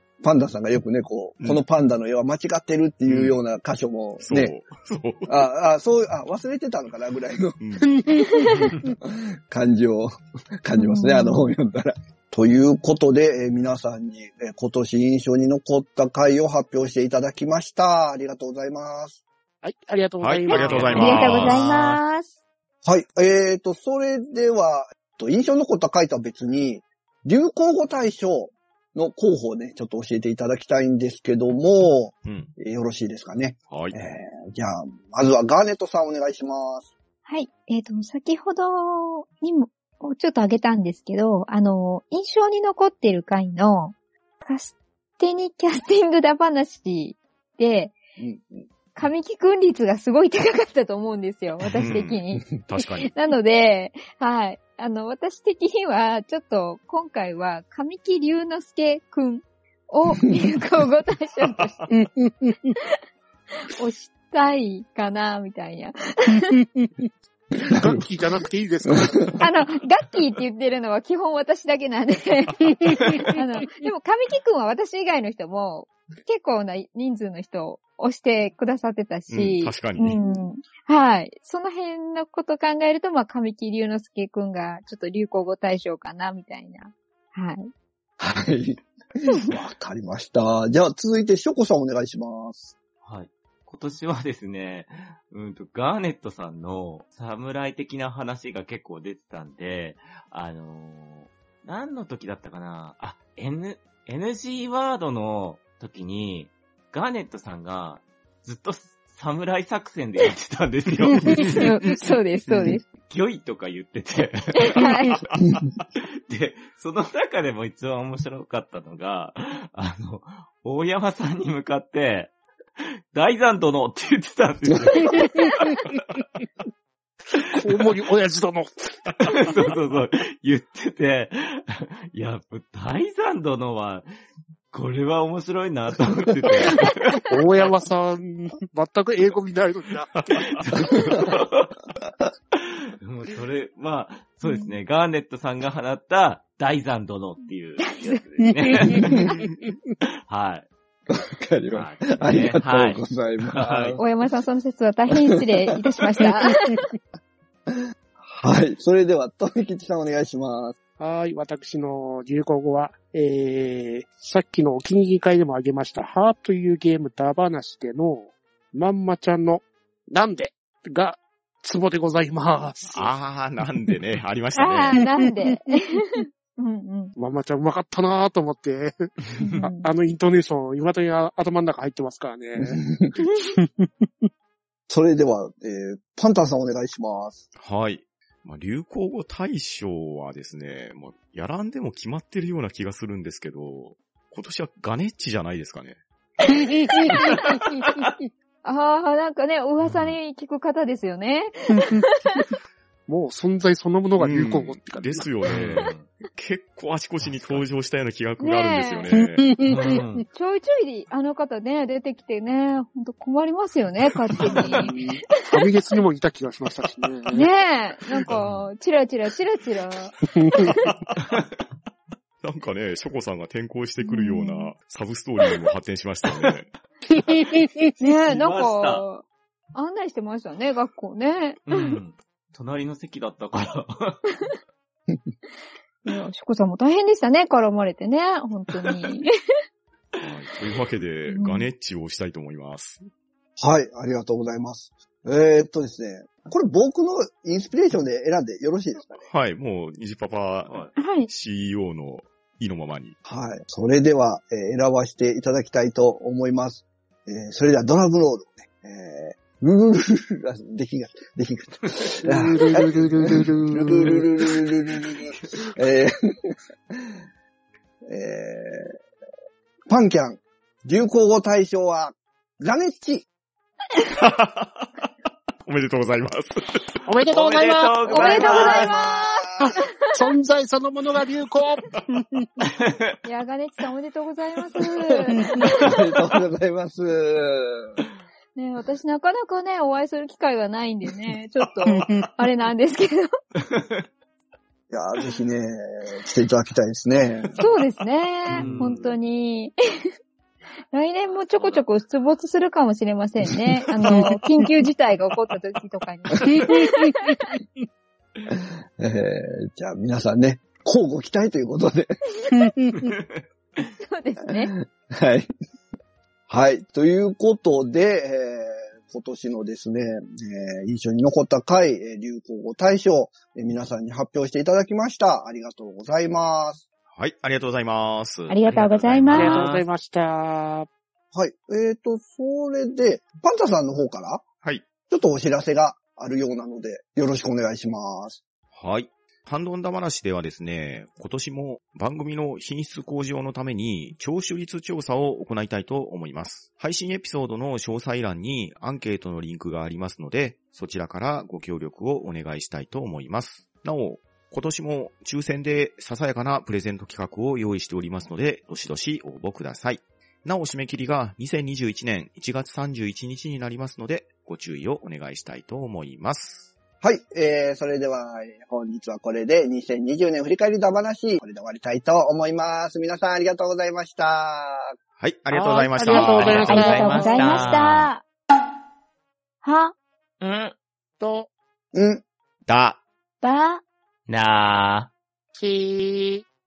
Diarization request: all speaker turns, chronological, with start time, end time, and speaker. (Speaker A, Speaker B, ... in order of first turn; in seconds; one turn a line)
Speaker A: 0.2-4.6
Speaker B: 3.1-3.4
Speaker B: 4.2-5.4
Speaker A: 5.3-7.6
Speaker B: 7.6-8.0
Speaker C: 8.0-8.7
Speaker D: 8.2-8.8
Speaker A: 9.1-10.1
Speaker A: 10.6-19.2
Speaker D: 10.8-11.5
Speaker C: 19.6-21.6
Speaker B: 20.2-22.0
Speaker E: 20.5-22.0
Speaker D: 20.9-22.3
Speaker A: 22.8-36.9
Speaker B: 32.2-32.5
Speaker B: 33.7-34.0
Speaker D: 37.3-48.0
Speaker A: 48.2-48.7
Speaker D: 49.0-61.8
Speaker B: 51.8-53.1
Speaker C: 61.9-62.8
Speaker D: 63.6-66.6
Speaker C: 67.7-69.4
Speaker D: 69.4-87.7
Speaker B: 79.3-80.2
Speaker A: 88.2-92.7
Speaker E: 93.0-111.8
Speaker B: 111.1-111.9
Speaker D: 111.4-112.8
Speaker B: 112.5-112.8
Speaker E: 113.0-115.2
Speaker D: 114.7-115.3
Speaker E: 116.0-125.9
Speaker C: 127.5-129.1
Speaker E: 129.2-134.1
Speaker E: 134.7-137.3
Speaker C: 137.3-140.2
Speaker B: 140.2-141.3
Speaker E: 141.3-141.6
Speaker E: 143.0-149.4
Speaker D: 144.4-144.7
Speaker D: 147.8-149.3
Speaker E: 150.3-150.7
Speaker A: 151.1-154.0
Speaker E: 151.7-154.0
Speaker D: 154.0-156.9
Speaker A: 157.7-160.8
Speaker C: 161.0-173.1
Speaker B: 172.9-175.1
Speaker D: 174.5-177.1
Speaker C: 177.2-184.3
Speaker E: 179.4-179.6
Speaker D: 179.4-179.9
Speaker A: 182.6-183.1
Speaker A: 184.9-187.5
Speaker B: 187.6-196.6
Speaker C: 196.7-197.2
Speaker D: 196.9-202.5
Speaker B: 197.2-197.4
Speaker E: 199.8-200.2
Speaker C: 201.8-202.0
Speaker C: 203.1-205.3
Speaker B: 204.2-209.6
Speaker E: 205.5-206.1
Speaker E: 207.2-207.6
Speaker D: 208.4-209.1
Speaker C: 209.4-210.0
Speaker E: 209.7-210.3
Speaker D: 210.3-215.0
Speaker C: 214.7-217.5
Speaker D: 217.3-220.9
Speaker B: 218.2-218.6
Speaker C: 220.4-220.7
Speaker B: 220.7-221.4
Speaker B: 222.4-226.7
Speaker D: 224.0-224.7
Speaker C: 227.1-227.9
Speaker D: 228.0-232.0
Speaker E: 228.2-229.1
Speaker E: 231.7-234.3
Speaker D: 236.1-239.3
Speaker B: 240.2-243.1
Speaker D: 241.3-241.7
Speaker A: 243.6-249.3
Speaker B: 249.3-253.2
Speaker E: 250.7-250.9
Speaker D: 251.0-251.3
Speaker A: 253.3-267.1
Speaker C: 262.2-264.4
Speaker A: 268.1-268.9
Speaker A: 269.9-273.3
Speaker B: 274.1-275.1
Speaker B: 275.6-277.0
Speaker C: 277.1-278.7
Speaker E: 277.3-279.0
Speaker D: 278.1-279.8
Speaker A: 278.3-279.4
Speaker C: 279.6-282.5
Speaker E: 282.6-283.1
Speaker D: 283.2-286.0
Speaker C: 285.5-285.8
Speaker A: 285.6-287.9
Speaker D: 288.6-293.3
Speaker C: 292.0-292.2
Speaker E: 293.7-294.0
Speaker A: 294.9-297.6
Speaker D: 297.6-299.7
Speaker E: 298.5-299.1
Speaker D: 300.9-307.5
Speaker E: 301.3-301.9
Speaker A: 308.5-312.1
Speaker C: 312.8-313.1
Speaker E: 313.1-313.4
Speaker D: 314.0-314.7
Speaker A: 314.8-315.5
Speaker A: 316.5-326.8
Speaker B: 327.1-328.6
Speaker D: 328.5-329.7
Speaker E: 328.6-329.9
Speaker C: 329.3-330.9
Speaker A: 331.3-334.4
Speaker A: 335.1-338.4
Speaker B: 338.8-366.7
Speaker A: 367.0-374.9
Speaker B: 375.2-376.9
Speaker C: 375.5-377.8
Speaker D: 376.1-378.2
Speaker E: 376.1-378.1
Speaker D: 379.6-379.9
Speaker E: 380.4-380.8
Speaker C: 381.2-381.5
Speaker A: 381.9-382.2
Speaker B: 382.7-383.0
Speaker D: 383.4-383.8
Speaker E: 384.3-385.1
Speaker C: 385.6-386.4